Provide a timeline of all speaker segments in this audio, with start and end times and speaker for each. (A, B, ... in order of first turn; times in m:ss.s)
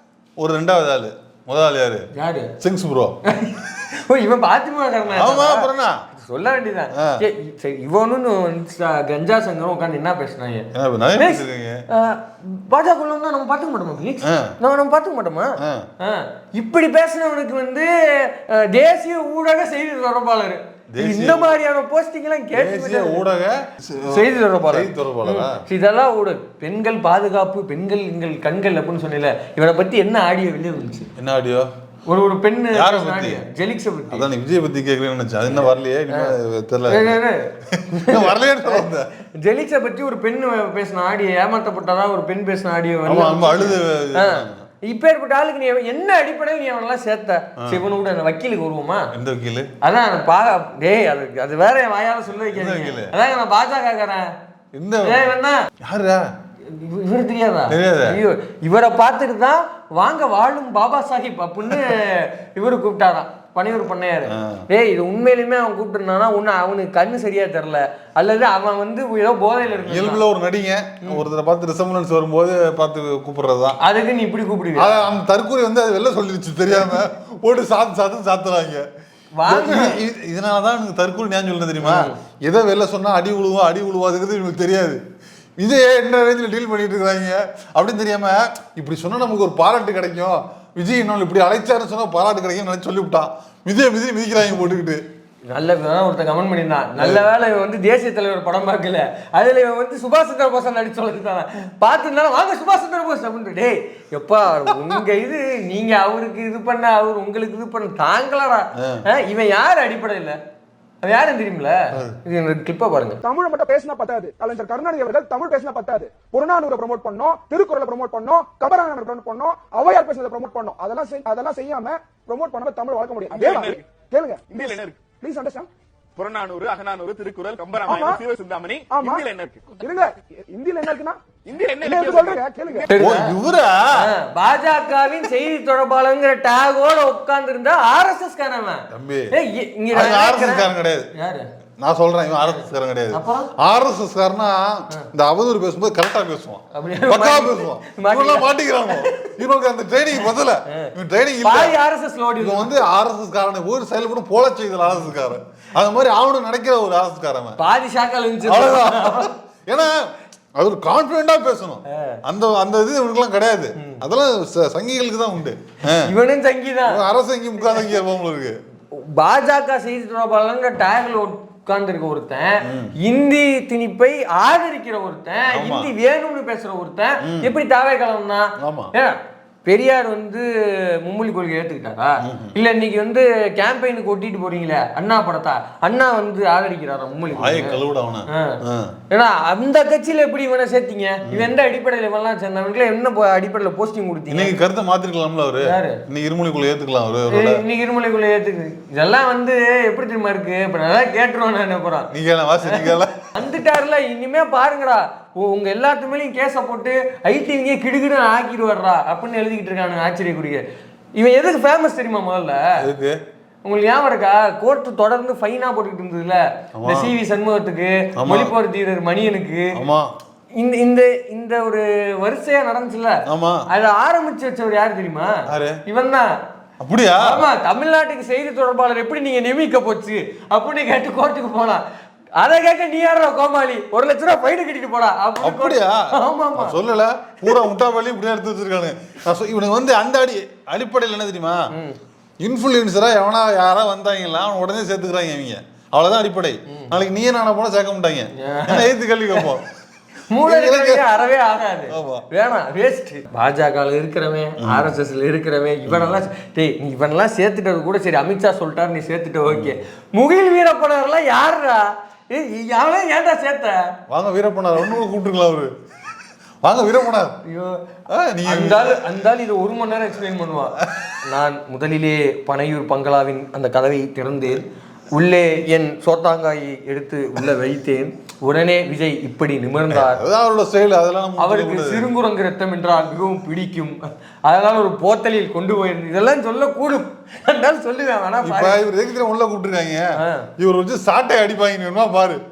0:00.4-0:02.1 A
0:02.1-0:02.5 B
0:02.6-0:03.2 A
0:03.3-0:23.2 B
0:05.1-0:06.0 A
0:07.0-0:07.2 A
0:10.8-0:11.8 A
0:14.2-0:14.5 A
0:15.6-0:15.9 A
0:20.9-0:21.5 A
0:22.6-0:25.6 A
0:24.1-0:31.1 B
0:31.2-0:31.7 A
0:32.1-0:34.3 B
0:32.7-0:33.4 A
0:34.1-0:39.1 A
0:35.5-0:36.3 B
0:36.9-0:38.8 B
0:39.4-0:49.1 B
0:43.1-0:44.6 A
0:49.1-0:49.7 A
0:49.8-0:54.3 B
0:52.6-0:53.1 A
0:54.7-0:55.3 A
0:55.0-0:55.6 B
0:55.8-0:56.2 A
0:56.7-1:10.2 B
0:57.7-0:58.2 A
1:04.3-1:04.6 A
1:09.8-1:13.8 A
1:13.8-1:15.0 B
1:14.8-1:18.8 A
1:19.4-1:20.0 B
1:19.5-1:25.0 A
1:21.8-1:22.2 B
1:25.6-1:35.0 A
1:35.5-1:50.4 B
1:37.0-1:37.2 A
1:44.5-1:44.9 A
1:48.8-1:49.0 A
1:51.0-1:53.2 B
1:53.2-2:05.7 C
2:03.3-2:03.8 D
2:04.6-2:05.0 D
2:06.2-2:09.8 D
2:07.9-2:08.2 C
2:08.9-2:09.2 C
2:09.8-2:11.2 C
2:11.5-2:12.9 D
2:11.8-2:12.9 C
2:12.9-2:13.3 B
2:13.0-2:14.1 A
2:14.0-2:21.5 B
2:18.9-2:19.3 A
2:19.9-2:21.1 A
2:21.8-2:31.8 A
2:22.5-2:23.5 B
2:26.7-2:29.3 B
2:31.4-2:32.8 B
2:32.4-2:37.6 A
2:37.6-2:39.3 B
2:38.4-2:40.0 A
2:40.6-2:46.1 A
2:41.9-2:42.2 B
2:43.8-2:44.0 B
2:46.0-2:47.0 B
2:46.9-2:48.6 A
2:48.9-3:08.6 B
2:52.6-2:52.9 A
2:55.5-2:55.9 A
2:57.2-2:57.5 A
2:58.6-2:58.9 A
3:02.2-3:02.5 A
3:07.3-3:09.0 A
3:09.1-3:14.5 B
3:14.3-3:17.6 A
3:15.6-3:16.0 B
3:17.3-3:22.1 B
3:22.1-3:23.3 A
3:22.6-3:30.6 B
3:31.2-3:32.7 B
3:32.8-3:33.2 A
3:33.7-3:39.7 B
3:36.8-3:37.1 A
3:38.2-3:38.5 A
3:39.8-3:40.1 A
3:40.6-3:45.4 B
3:43.3-3:43.7 A
3:45.5-3:45.8 A
3:45.9-3:46.3 B
3:46.8-3:47.4 A
3:47.2-3:51.8 B
3:52.4-3:56.8 B
3:55.4-4:01.6 A
4:01.7-4:02.0 B
4:02.4-4:09.7 A
4:06.7-4:06.9 B
4:08.4-4:09.4 B
4:10.3-4:23.9 B
4:10.4-4:11.1 A
4:11.9-4:12.2 A
4:14.6-4:14.9 A
4:15.9-4:16.2 A
4:19.5-4:19.8 A
4:24.1-4:25.7 A
4:26.6-4:27.4 A
4:27.5-4:27.8 B
4:28.1-4:29.0 A
4:28.4-4:40.2 B
4:30.8-4:31.2 A
4:39.9-4:42.1 A
4:41.4-4:48.8 B
4:48.4-4:52.4 A
4:50.2-4:50.5 B